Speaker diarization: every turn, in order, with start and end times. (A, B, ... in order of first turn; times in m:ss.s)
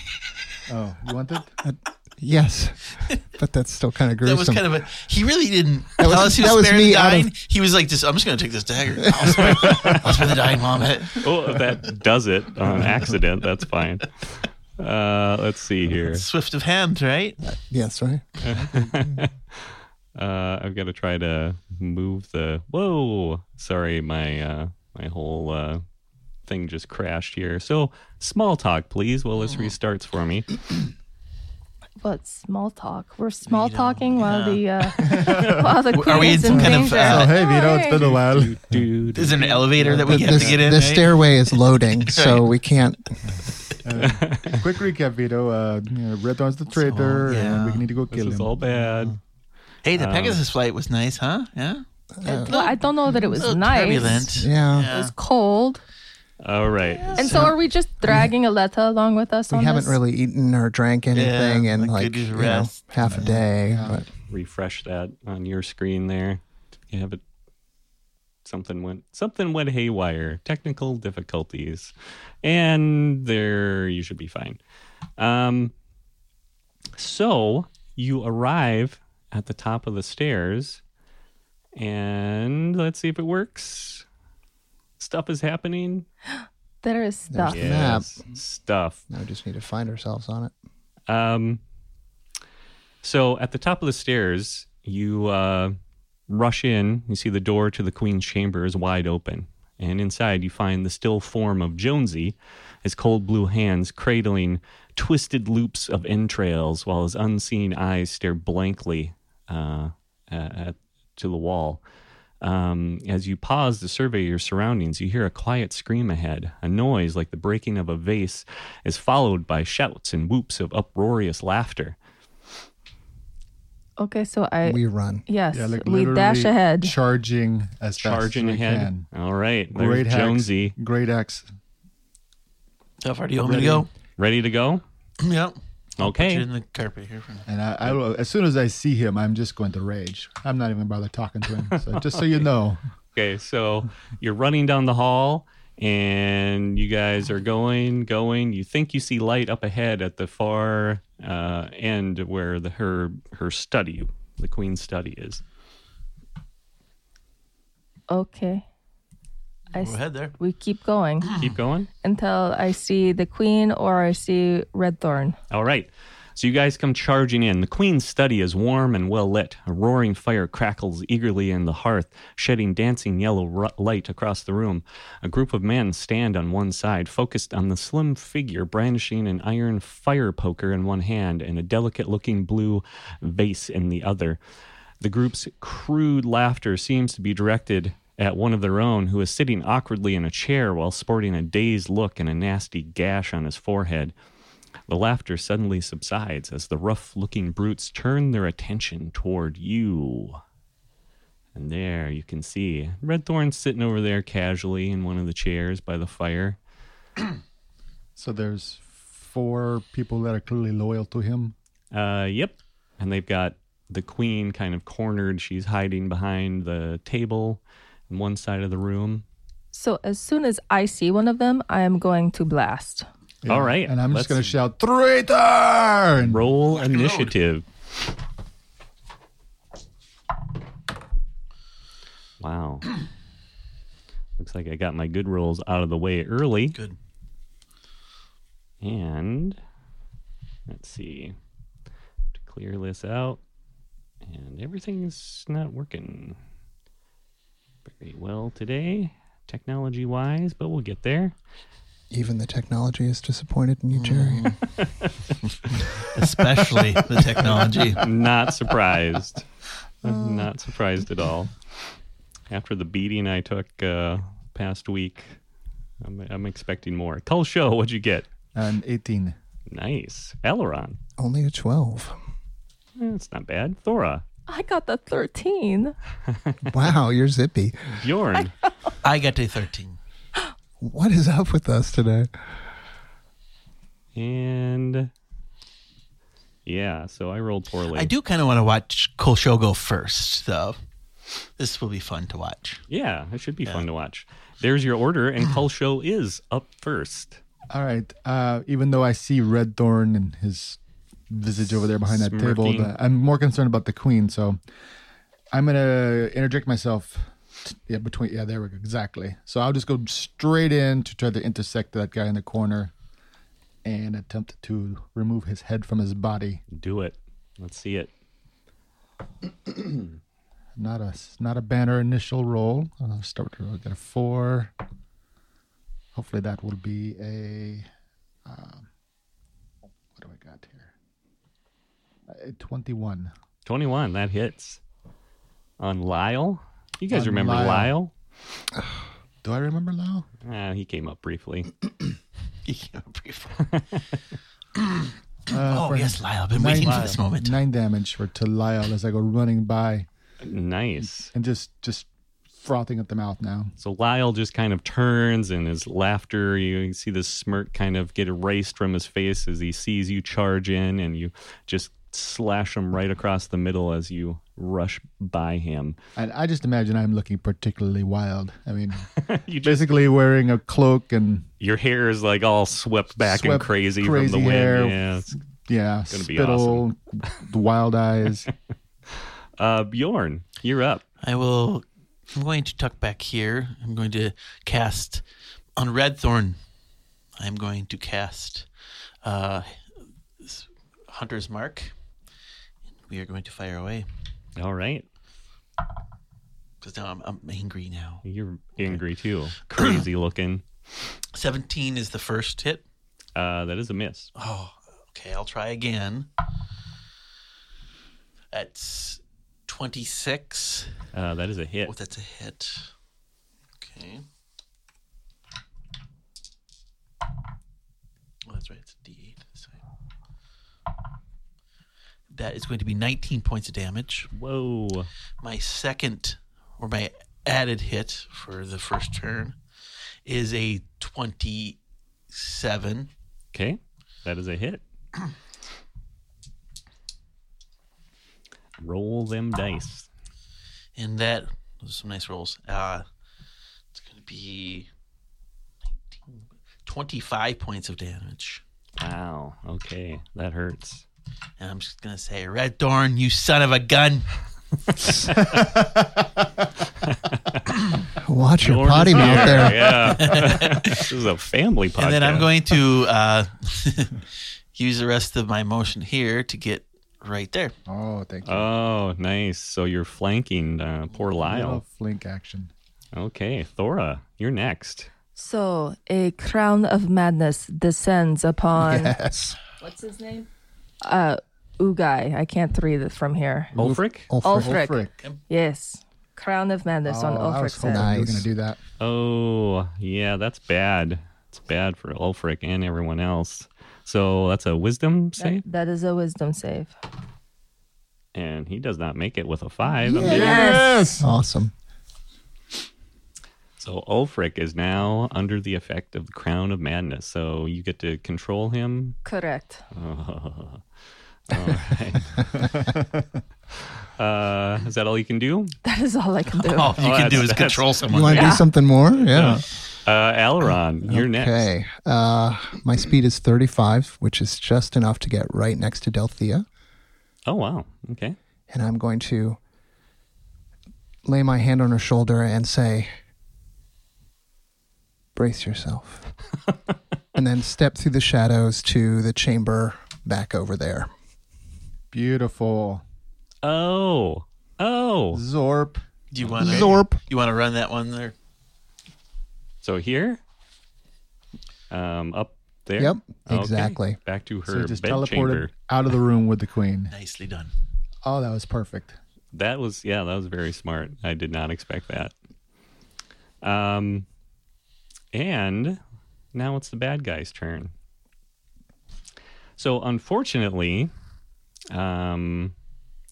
0:00.7-0:01.5 A
0:01.7-0:04.8 B
0:04.2-0:11.3 C
0:06.0-0:07.3 B
0:09.1-0:09.4 B
0:09.4-0:10.3 D
0:11.2-0:16.2 D
0:16.0-0:17.4 C
0:17.4-0:19.2 B
0:18.4-0:19.3 D
0:20.2-0:25.8 D
0:26.5-0:30.8 D
0:32.0-0:38.1 E
0:33.4-0:34.6 C
0:35.0-0:38.8 A
0:35.8-0:37.4 C
0:37.9-0:40.5 D
0:39.1-0:41.3 C
0:39.6-0:40.5 A
0:40.1-0:43.2 B
0:42.0-0:42.4 C
0:43.2-0:48.6 A
0:44.0-0:44.6 D
0:46.8-0:47.8 C
0:48.1-0:49.2 D
0:49.8-0:51.8 C
0:49.9-0:50.4 D
0:52.2-0:52.5 B
0:52.2-0:54.3 E
0:52.3-0:52.8 C
0:53.3-0:55.1 C
0:54.4-0:54.9 B
0:54.9-0:55.8 E
0:56.4-0:57.4 D
0:57.0-0:57.5 C
0:57.1-1:00.0 E
0:59.5-1:04.1 B
1:01.1-1:03.3 C
1:03.0-1:04.0 A
1:04.3-1:07.2 D
1:08.4-1:14.6 D
1:15.2-1:15.7 D
1:17.0-1:20.8 D
1:21.8-1:24.0 D
1:25.0-1:26.0 D
1:26.8-1:27.6 E
1:27.3-1:28.2 B
1:27.5-1:29.0 D
1:29.1-1:30.5 B
1:31.1-1:31.6 D
1:33.0-1:35.7 D
1:36.3-1:51.8 D
1:52.4-2:02.0 D
2:04.0-2:06.9 E
2:04.6-2:05.2 B
2:05.5-2:09.0 A
2:08.0-2:10.8 D
2:09.7-2:11.4 A
2:13.0-2:13.9 C
2:13.4-2:13.9 A
2:14.2-2:14.8 D
2:15.2-2:17.4 C
2:16.0-2:16.4 D
2:17.5-2:22.8 A
2:21.9-2:22.4 D
2:23.1-2:35.4 D
2:38.1-2:38.6 E
2:39.7-2:41.3 E
2:39.7-2:40.3 C
2:41.4-2:41.9 D
2:42.0-2:45.4 E
2:45.5-3:04.4 D
3:05.0-3:14.1 D
3:14.9-3:20.4 D
3:21.5-3:26.6 D
3:28.2-3:31.5 A
3:31.9-3:39.2 D
3:39.7-3:43.1 E
3:43.4-3:46.5 A
3:43.5-3:44.6 D
3:46.2-3:47.6 D
3:46.7-3:47.3 C
3:52.4-3:52.9 D
3:54.4-3:56.8 D
3:58.8-3:59.6 D
4:00.7-4:01.3 D
4:02.3-4:03.4 D
4:04.2-4:06.4 D
4:07.9-4:11.3 D
4:12.1-4:14.5 B
4:13.9-4:14.6 C
4:14.6-4:19.4 D
4:15.7-4:18.1 C
4:20.0-4:21.5 D
4:22.5-4:25.3 D
4:26.0-4:28.3 D
4:28.5-4:29.3 A
4:29.7-4:31.0 D
4:31.2-4:32.2 B
4:33.0-4:34.2 D
4:34.5-4:35.9 E
4:36.3-4:36.6 D
4:36.6-4:37.8 B
4:37.9-4:38.6 D
4:39.0-4:40.0 C
4:40.8-4:42.3 B
4:44.1-4:45.1 D
4:46.6-4:48.1 D
4:47.9-4:50.8 C
4:51.5-4:52.8 C
4:52.9-4:57.4 D
4:57.7-5:00.8 A
5:01.3-5:04.6 A
5:02.0-5:02.9 D
5:05.5-5:12.9 A
5:13.8-5:16.6 A
5:16.7-5:18.1 D
5:20.8-5:24.7 A
5:26.1-5:27.9 A
5:28.4-5:28.9 A
5:30.2-5:30.9 A
5:32.3-5:33.3 A
5:33.6-5:34.8 D
5:35.8-5:38.1 D
5:37.1-5:37.9 A
5:39.4-5:40.3 A
5:40.4-5:41.7 D
5:42.6-5:43.6 C
5:43.6-5:44.0 D
5:44.7-5:45.1 C
5:45.5-5:50.1 A
5:45.7-5:47.6 C
5:50.4-5:51.3 D
5:51.0-5:52.1 A
5:52.6-5:53.7 A
5:53.8-6:06.0 D
6:06.2-6:11.5 A
6:09.1-6:09.8 D
6:11.6-6:15.4 D
6:13.2-6:15.0 A
6:15.6-6:18.5 A
6:16.1-6:16.8 D
6:19.1-6:21.0 D
6:21.2-6:25.2 C
6:25.8-6:26.6 C
6:27.4-6:28.7 C
6:29.2-6:29.8 C
6:30.4-6:31.9 C
6:33.0-6:34.1 C
6:34.6-6:35.0 D
6:36.8-6:38.2 C
6:38.2-6:40.6 D
6:41.3-6:42.8 C
6:43.4-6:44.3 D
6:44.4-6:46.3 C
6:48.5-6:50.9 C
6:51.1-6:51.9 D
6:51.8-6:52.9 C
6:53.8-6:54.2 C
6:58.5-6:59.8 C
7:02.3-7:04.3 C
7:04.3-7:05.1 D
7:05.4-7:09.6 C
7:10.2-7:11.8 C
7:12.3-7:13.1 C
7:13.5-7:14.8 D
7:18.8-7:20.1 D
7:21.0-7:23.0 C
7:23.9-7:24.9 C
7:26.1-7:28.6 C
7:29.0-7:31.0 D
7:31.6-7:34.3 C
7:35.1-7:35.4 D
7:35.4-7:36.0 A
7:37.0-7:37.6 D
7:38.2-7:40.3 B
7:38.6-7:42.6 D
7:39.2-7:39.5 A
7:39.9-7:41.1 C
7:42.0-7:44.2 C
7:44.7-7:47.7 C
7:47.8-7:48.7 A
7:48.4-7:51.8 D
7:51.4-7:52.7 A
7:53.1-7:55.1 D
7:55.4-7:59.1 E
7:58.8-7:59.6 B
7:59.8-8:00.5 E
8:01.0-8:03.7 E
8:03.7-8:05.2 A
8:03.8-8:04.3 D
8:04.3-8:04.8 B
8:04.4-8:08.1 E
8:07.0-8:08.8 A
8:07.8-8:08.5 B
8:09.0-8:15.6 D
8:15.4-8:16.9 E
8:18.3-8:20.4 D
8:20.0-8:21.0 E
8:20.1-8:21.2 A
8:20.2-8:21.7 B
8:23.8-8:29.2 D
8:29.2-8:29.8 E
8:29.9-8:30.8 D
8:31.5-8:32.7 D
8:32.6-8:33.0 A
8:33.7-8:35.7 D
8:35.8-8:37.0 E
8:36.6-8:38.6 C
8:37.0-8:38.4 D
8:38.1-8:39.6 B
8:38.3-8:38.6 E
8:39.3-8:41.7 D
8:41.1-8:46.6 B
8:47.4-8:48.4 D
8:48.7-8:49.6 B
8:51.2-8:53.1 B
8:55.3-8:56.2 B
8:57.3-9:01.1 B
9:02.1-9:03.0 A
9:03.6-9:05.4 D
9:05.3-9:06.0 A
9:06.3-9:08.3 C
9:06.4-9:06.8 D
9:06.6-9:07.2 B
9:09.8-9:10.4 D
9:11.9-9:15.7 D
9:13.0-9:14.2 B
9:14.7-9:17.1 A
9:17.1-9:17.7 C
9:18.2-9:19.2 A
9:19.5-9:22.3 D
9:23.6-9:24.2 D
9:25.3-9:26.0 D
9:26.5-9:27.9 D
9:29.8-9:31.1 D
9:31.9-9:32.7 D